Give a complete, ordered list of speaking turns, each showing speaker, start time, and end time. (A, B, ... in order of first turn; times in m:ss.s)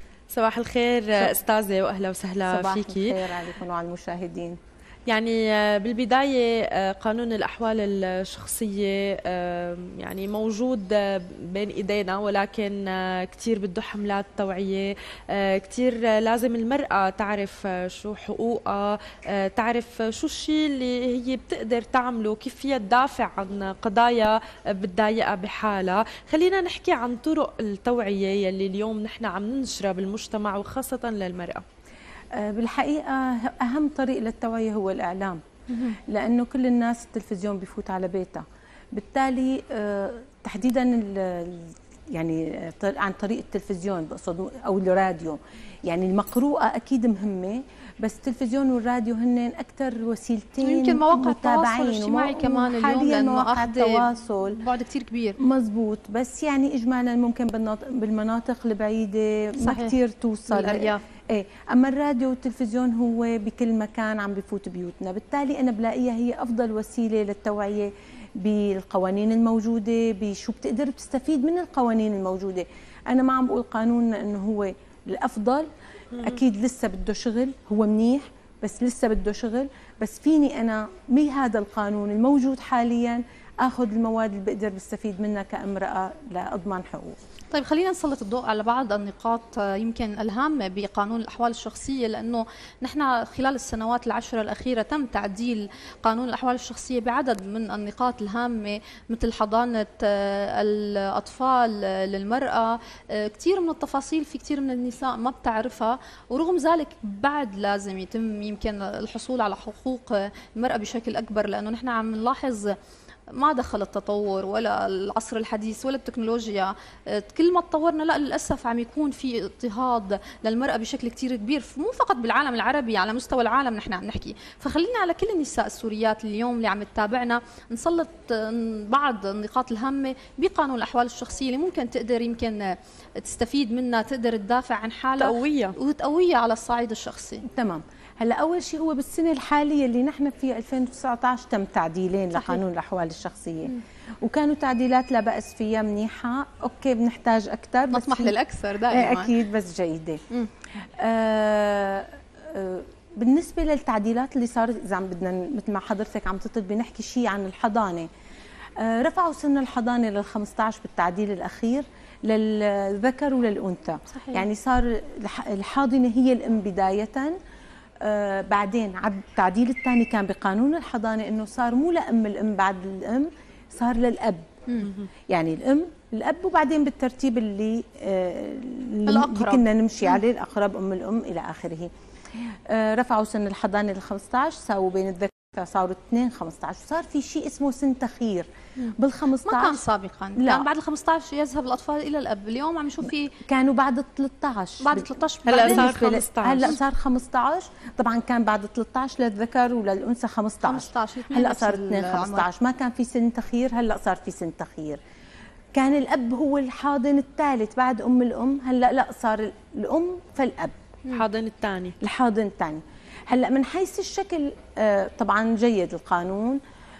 0:00.3-0:03.2 A
0:02.4-0:04.6 B
0:05.1-0:31.6 A
0:32.3-0:54.6 B
0:50.6-0:55.4 C
0:55.4-1:15.7 B
0:59.6-1:00.0 C
1:00.5-1:01.0 C
1:16.1-1:16.4 A
1:16.2-1:27.2 B
1:27.5-1:52.8 C
1:53.3-2:17.4 C
2:15.2-2:15.8 A
2:17.5-2:28.4 B
2:22.3-2:22.6 C
2:27.9-2:29.4 C
2:28.9-2:30.2 B
2:31.0-2:38.1 B
2:38.8-2:47.4 B
2:44.1-2:44.4 C
2:48.0-2:54.4 B
2:55.3-3:01.9 B
2:59.1-2:59.7 C
3:02.7-3:09.8 B
3:08.8-3:13.3 C
3:10.4-3:10.7 B
3:13.4-3:15.1 B
3:14.8-3:16.0 C
3:15.5-3:16.8 A
3:15.6-3:25.0 B
3:20.6-3:22.5 C
3:25.7-3:30.8 B
3:31.1-3:32.0 A
3:32.0-3:36.6 B